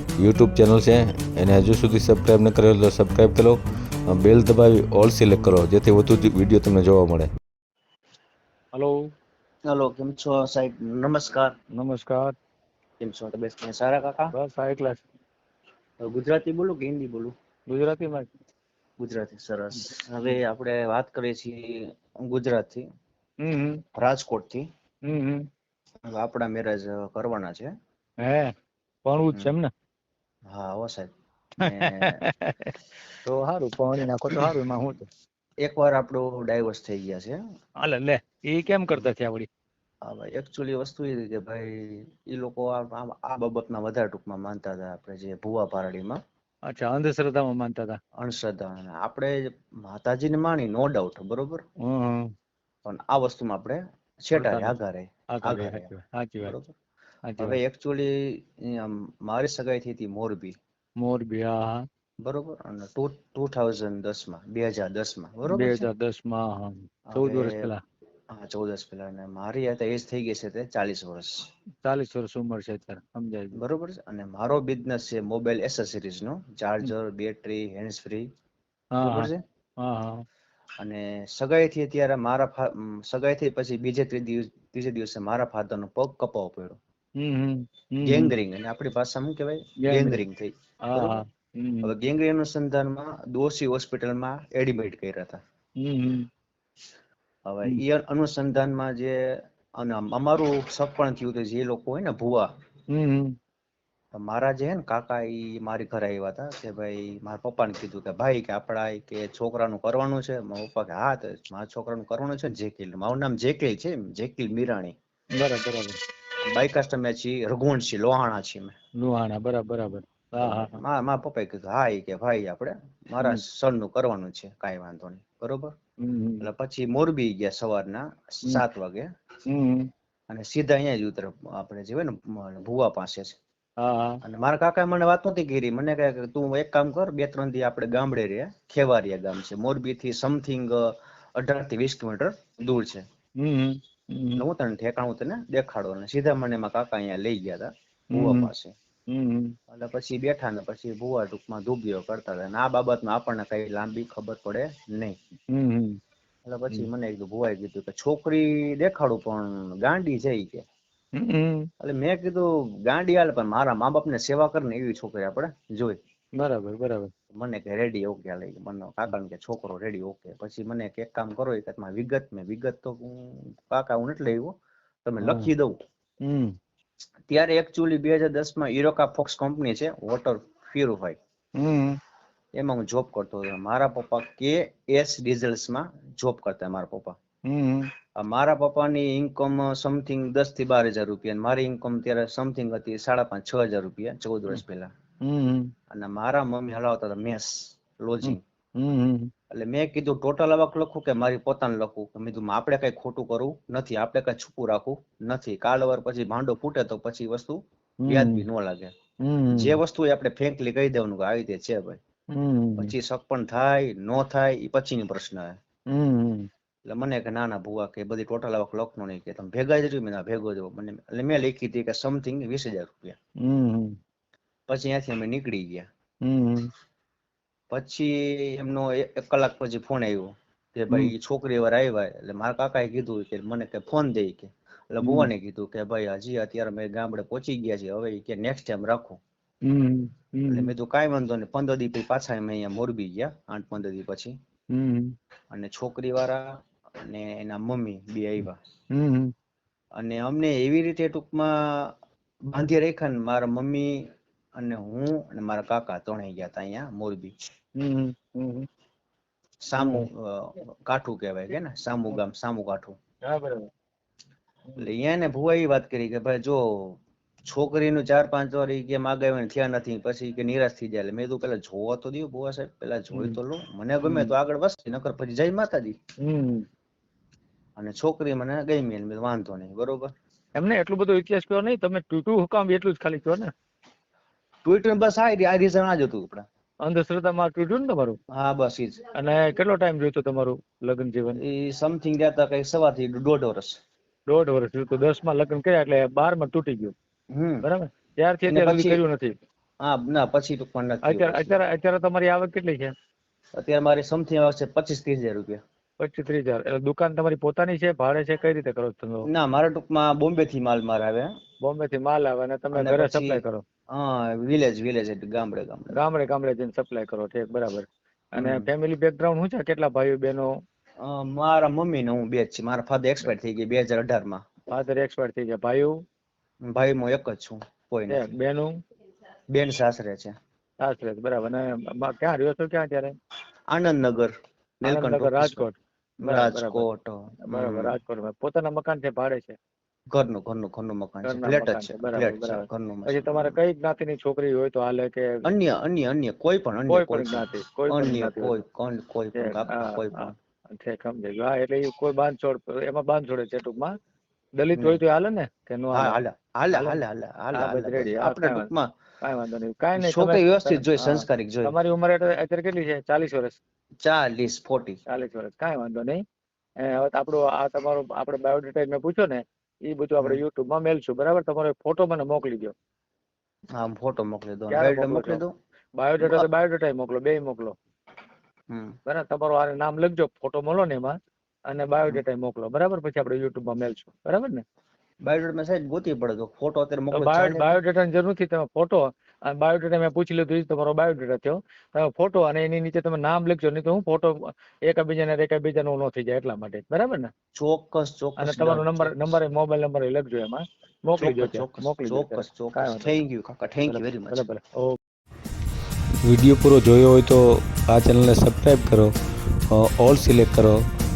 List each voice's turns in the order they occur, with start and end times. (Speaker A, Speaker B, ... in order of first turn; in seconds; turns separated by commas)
Speaker A: 0.2-7.3, Speaker B: 8.7-9.0, Speaker C: 9.7-11.5, Speaker B: 11.8-12.3, Speaker C: 13.0-14.3, Speaker B: 14.3-15.0, Speaker C: 16.0-17.3, Speaker B: 17.7-18.3, Speaker C: 19.0-22.9, Speaker B: 23.4-23.8, Speaker C: 24.0-24.7, Speaker B: 25.1-25.5, Speaker C: 26.0-27.7, Speaker B: 28.2-28.5, Speaker B: 29.1-29.7, Speaker C: 30.5-31.1, Speaker B: 31.6-35.1, Speaker C: 31.6-32.2, Speaker C: 35.6-37.4, Speaker B: 37.8-39.5, Speaker C: 40.0-46.2, Speaker B: 46.7-48.0, Speaker C: 48.2-51.6, Speaker B: 51.8-52.3, Speaker C: 52.9-55.9, Speaker B: 54.4-54.7, Speaker B: 55.3-56.6, Speaker C: 56.4-56.8, Speaker B: 57.3-57.6, Speaker C: 57.4-60.6, Speaker B: 61.0-61.8, Speaker C: 62.2-65.9, Speaker B: 65.5-67.8, Speaker C: 67.1-67.7, Speaker C: 68.3-71.5, Speaker B: 71.8-73.6, Speaker C: 73.5-78.3, Speaker B: 79.0-80.2, Speaker C: 79.0-79.4, Speaker C: 80.8-86.8, Speaker B: 87.2-88.3, Speaker C: 88.0-91.2, Speaker B: 89.8-90.2, Speaker B: 90.9-91.9, Speaker C: 91.8-95.4, Speaker B: 95.8-96.3, Speaker C: 97.5-102.5, Speaker B: 102.9-103.3, Speaker C: 104.1-115.0, Speaker B: 115.3-116.0, Speaker C: 116.5-118.8, Speaker B: 119.0-120.8, Speaker C: 120.4-125.8, Speaker B: 126.0-126.5, Speaker C: 126.4-129.1, Speaker B: 129.5-129.9, Speaker C: 130.3-133.4, Speaker B: 133.8-134.2, Speaker C: 134.2-143.1, Speaker B: 143.4-144.4, Speaker C: 144.4-148.7, Speaker B: 148.1-148.5, Speaker B: 149.1-149.6, Speaker C: 149.7-155.2, Speaker B: 155.5-156.0, Speaker C: 156.4-160.7, Speaker B: 161.2-161.7, Speaker C: 161.8-166.0, Speaker B: 166.4-167.1, Speaker C: 167.3-175.8, Speaker B: 175.2-175.5, Speaker B: 176.2-176.5, Speaker C: 177.3-181.2, Speaker B: 181.6-182.0, Speaker C: 182.6-187.2, Speaker B: 187.5-187.9, Speaker C: 188.2-194.9, Speaker B: 195.2-195.7, Speaker C: 195.9-198.4, Speaker B: 198.2-199.3, Speaker C: 199.5-208.9, Speaker B: 208.0-208.5, Speaker B: 209.2-209.8, Speaker C: 209.5-212.0, Speaker B: 212.3-212.9, Speaker C: 212.8-215.6, Speaker B: 215.9-216.5, Speaker C: 216.9-223.2, Speaker B: 223.4-224.0, Speaker C: 224.7-225.9, Speaker B: 226.2-226.7, Speaker C: 227.7-239.2, Speaker B: 235.0-235.3, Speaker B: 239.6-240.7, Speaker C: 240.5-244.4, Speaker B: 244.7-245.1, Speaker C: 245.5-248.6, Speaker B: 248.9-249.3, Speaker C: 250.0-251.9, Speaker C: 252.5-257.3, Speaker B: 257.8-258.7, Speaker C: 259.6-263.0, Speaker B: 259.8-260.1, Speaker B: 263.2-263.7, Speaker C: 264.8-276.0, Speaker B: 273.1-273.4, Speaker B: 274.0-274.3, Speaker B: 276.2-276.7, Speaker C: 277.8-280.1, Speaker B: 280.6-283.5, Speaker C: 284.6-286.5, Speaker B: 286.8-288.2, Speaker C: 288.3-289.0, Speaker B: 289.1-291.4, Speaker C: 291.4-293.8, Speaker B: 294.3-296.9, Speaker C: 297.3-297.7, Speaker B: 297.6-299.3, Speaker C: 298.5-299.0, Speaker C: 299.8-301.6, Speaker B: 301.0-302.9, Speaker C: 303.6-305.6, Speaker B: 306.0-309.3, Speaker C: 309.3-311.4, Speaker B: 311.6-313.6, Speaker C: 312.7-316.0, Speaker B: 315.9-320.5, Speaker C: 318.4-318.7, Speaker C: 321.0-324.4, Speaker B: 324.7-326.0, Speaker C: 326.7-328.3, Speaker B: 328.1-328.8, Speaker C: 329.5-330.4, Speaker B: 330.8-333.1, Speaker C: 333.7-334.3, Speaker C: 334.8-335.7, Speaker B: 334.8-336.9, Speaker C: 336.2-338.0, Speaker B: 337.4-339.6, Speaker C: 340.1-343.6, Speaker B: 341.2-345.4, Speaker C: 345.4-350.3, Speaker B: 346.9-348.6, Speaker B: 349.4-353.9, Speaker B: 354.6-356.2, Speaker C: 354.8-355.0, Speaker C: 355.9-358.9, Speaker B: 356.7-357.0, Speaker B: 357.5-358.7, Speaker B: 359.2-363.6, Speaker C: 360.0-361.7, Speaker C: 364.0-365.0, Speaker B: 365.1-366.2, Speaker B: 366.8-372.8, Speaker C: 373.8-375.5, Speaker B: 374.7-375.4, Speaker B: 376.0-377.8, Speaker C: 376.2-376.5, Speaker C: 378.7-379.0, Speaker B: 379.1-381.1, Speaker B: 381.7-384.6, Speaker C: 385.2-387.8, Speaker B: 387.1-397.3, Speaker C: 397.5-399.4, Speaker B: 398.4-403.2, Speaker C: 401.2-404.5, Speaker B: 403.9-405.0, Speaker B: 406.3-409.1, Speaker B: 410.0-410.8